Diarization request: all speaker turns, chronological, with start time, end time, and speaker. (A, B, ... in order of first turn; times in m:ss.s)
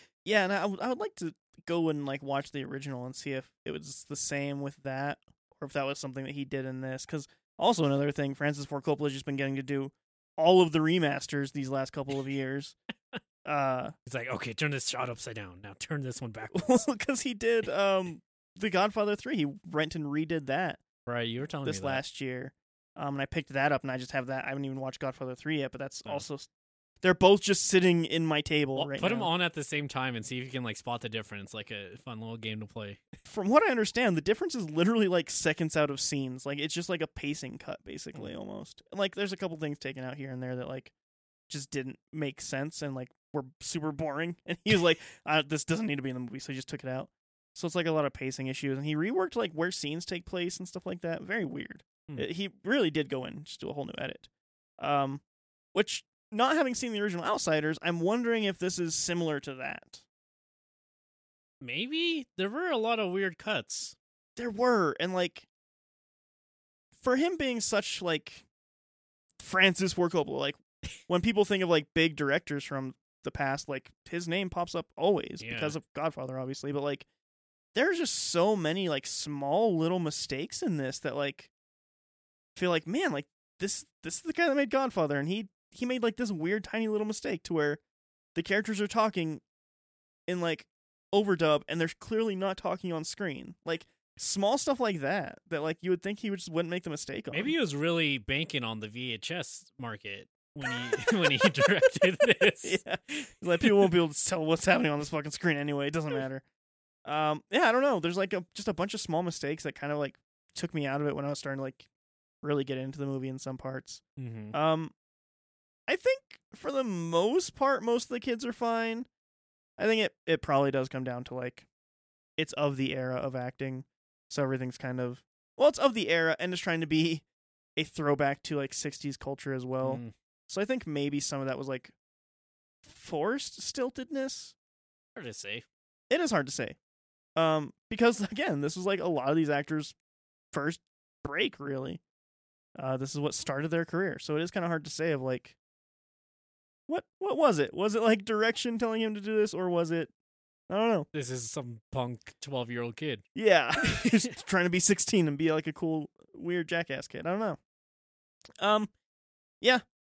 0:00.2-0:12.8 A
0:13.4-0:14.0 A
0:14.1-0:16.7 B
0:16.5-0:20.8 A
0:21.1-0:22.0 B
0:21.6-0:26.5 A
0:27.0-0:29.3 A
0:28.8-0:33.0 B
0:33.2-0:40.9 A
0:41.5-0:55.2 A
0:55.7-1:00.0 A
1:01.6-1:04.0 B
1:04.4-1:05.5 A
1:07.0-1:08.5 A
1:09.4-1:17.1 A
1:15.4-1:15.8 B
1:17.7-1:21.5 A
1:22.6-1:27.8 A
1:28.4-1:29.4 A
1:30.3-1:37.6 A
1:37.3-1:42.8 B
1:40.9-1:41.6 A
1:42.6-1:46.4 A
1:43.6-1:43.9 B
1:47.0-1:51.9 A
1:52.4-1:54.0 A
1:54.2-1:54.6 B
1:54.5-1:54.9 A
1:55.9-1:59.1 A
1:59.8-2:01.7 A
2:02.4-2:07.2 A
2:07.8-2:11.9 A
2:09.8-2:10.1 B
2:12.8-2:14.6 A
2:15.2-2:15.6 B
2:16.1-2:16.8 A
2:17.4-2:20.0 A
2:20.5-2:22.0 A
2:22.8-2:25.6 A
2:26.9-2:30.1 A
2:30.7-2:31.1 A
2:31.1-2:33.2 B
2:33.4-2:37.6 A
2:33.9-2:34.2 B
2:38.6-2:38.9 A